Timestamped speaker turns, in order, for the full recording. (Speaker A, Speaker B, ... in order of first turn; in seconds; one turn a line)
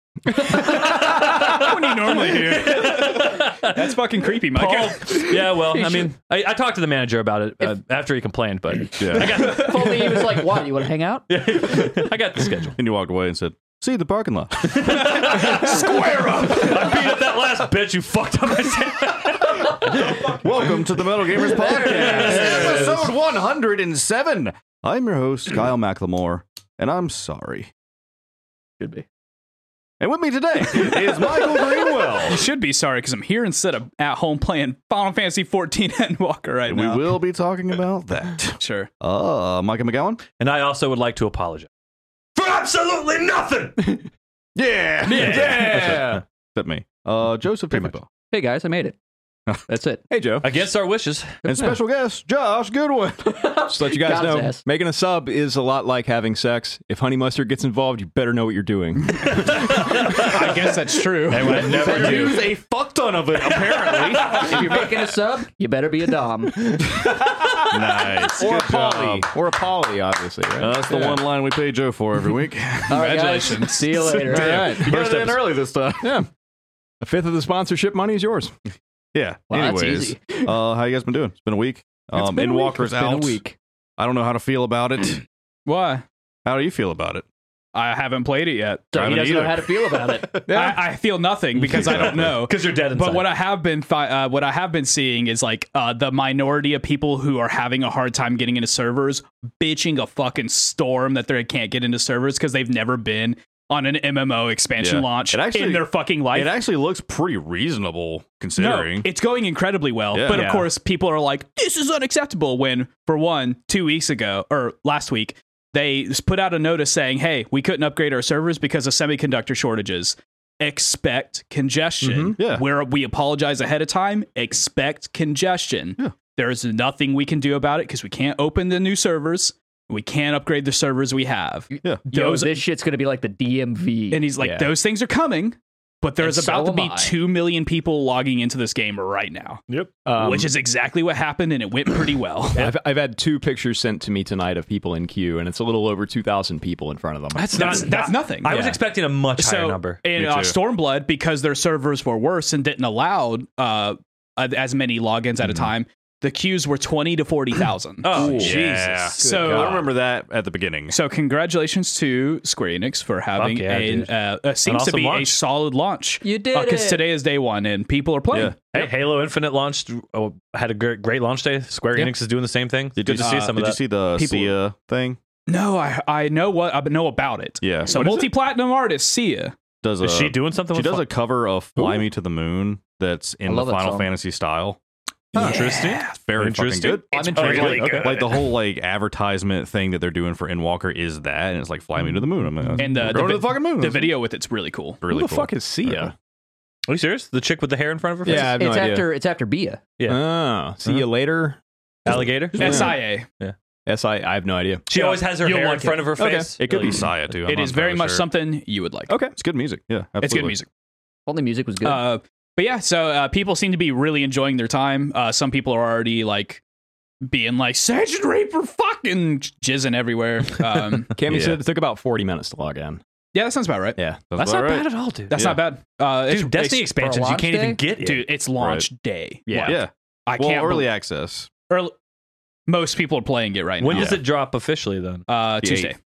Speaker A: 0.3-3.9
Speaker B: 0.5-5.2
Speaker A: 4.5-10.6
Speaker C: 5.6-6.1
Speaker D: 9.0-9.6
Speaker C: 9.2-11.2
Speaker A: 11.3-12.8
Speaker D: 12.8-15.3
Speaker A: 14.6-20.7
Speaker D: 20.0-27.7
Speaker A: 21.4-23.1
Speaker C: 21.9-22.8
Speaker D: 30.0-32.4
Speaker B: 32.2-37.1
Speaker D: 36.7-40.2
Speaker B: 38.6-38.9
Speaker A: 40.3-41.7
Speaker A: 42.4-44.1
Speaker D: 44.6-48.1
Speaker A: 45.1-46.2
Speaker E: 45.1-46.2
Speaker C: 48.3-49.0
Speaker C: 49.7-50.0
Speaker E: 50.1-50.5
Speaker A: 50.4-51.4
Speaker D: 51.4-53.4
Speaker C: 53.2-54.6
Speaker E: 53.7-59.8
Speaker B: 59.2-59.6
Speaker A: 59.3-60.5
Speaker B: 60.1-62.4
Speaker A: 61.3-62.5
Speaker D: 61.5-64.8
Speaker C: 61.7-62.3
Speaker A: 63.4-64.9
Speaker C: 64.2-66.9
Speaker E: 67.0-71.2
Speaker D: 67.0-69.3
Speaker D: 70.6-73.0
Speaker C: 72.9-74.9
Speaker B: 72.9-74.6
Speaker E: 74.2-75.0
Speaker D: 74.2-76.2
Speaker A: 74.8-75.5
Speaker E: 76.0-76.3
Speaker E: 77.0-78.5
Speaker D: 79.1-83.4
Speaker C: 79.5-80.5
Speaker E: 82.1-83.6
Speaker D: 84.0-85.2
Speaker B: 85.7-86.0
Speaker D: 86.5-87.2
Speaker B: 87.8-89.0
Speaker C: 88.9-90.4
Speaker D: 88.9-90.4
Speaker E: 90.5-90.8
Speaker B: 90.5-106.6
Speaker A: 91.6-93.3
Speaker D: 91.7-92.4
Speaker D: 104.8-109.1
Speaker B: 108.6-132.6
Speaker D: 110.1-110.5
Speaker E: 110.2-110.7
Speaker E: 122.0-122.4
Speaker D: 122.4-122.6
Speaker C: 131.7-134.2
Speaker B: 134.1-139.6
Speaker E: 134.4-134.7
Speaker C: 136.2-137.1
Speaker A: 139.7-139.9
Speaker E: 140.1-140.5
Speaker B: 140.1-142.7
Speaker E: 142.6-147.4
Speaker A: 147.3-150.0
Speaker B: 147.6-159.8
Speaker D: 150.2-150.6
Speaker A: 158.0-159.2
Speaker D: 158.1-161.0
Speaker E: 158.2-158.6
Speaker E: 159.2-159.9
Speaker B: 160.9-168.9
Speaker A: 163.4-164.1
Speaker A: 164.7-165.4
Speaker C: 166.2-167.0
Speaker A: 168.7-174.2
Speaker D: 173.0-175.2
Speaker B: 173.2-173.5
Speaker B: 174.2-174.5
Speaker B: 175.5-179.6
Speaker D: 177.6-178.0
Speaker A: 177.9-178.3
Speaker D: 179.8-184.8
Speaker A: 180.0-181.1
Speaker C: 183.4-184.1
Speaker D: 185.3-194.1
Speaker B: 185.3-186.2
Speaker A: 185.4-188.3
Speaker B: 187.1-188.2
Speaker C: 187.1-188.2
Speaker E: 192.6-193.2
Speaker B: 192.8-195.0
Speaker D: 195.0-196.1
Speaker E: 195.1-196.1
Speaker A: 196.9-198.6
Speaker E: 198.2-199.1
Speaker C: 198.2-199.8
Speaker A: 200.0-200.2
Speaker E: 200.1-202.9
Speaker A: 202.1-203.6
Speaker B: 202.6-203.3
Speaker E: 203.9-204.8
Speaker A: 204.9-206.6
Speaker B: 204.9-206.3
Speaker E: 206.2-207.0
Speaker D: 206.6-208.2
Speaker B: 207.4-209.2
Speaker E: 209.1-209.3
Speaker D: 209.4-210.6
Speaker B: 210.2-210.7
Speaker C: 211.3-212.1
Speaker B: 211.8-216.6
Speaker B: 217.3-221.2
Speaker E: 221.2-223.0
Speaker D: 221.2-221.6
Speaker B: 223.3-224.0
Speaker D: 224.3-224.9
Speaker A: 224.4-225.6
Speaker B: 225.3-226.9
Speaker A: 226.3-228.3
Speaker C: 226.9-227.8
Speaker B: 228.0-230.9
Speaker E: 229.5-229.8
Speaker D: 229.6-231.5
Speaker B: 232.7-234.2
Speaker A: 233.8-235.2
Speaker E: 233.9-234.2
Speaker D: 233.9-234.2
Speaker B: 235.3-236.0
Speaker D: 235.6-235.9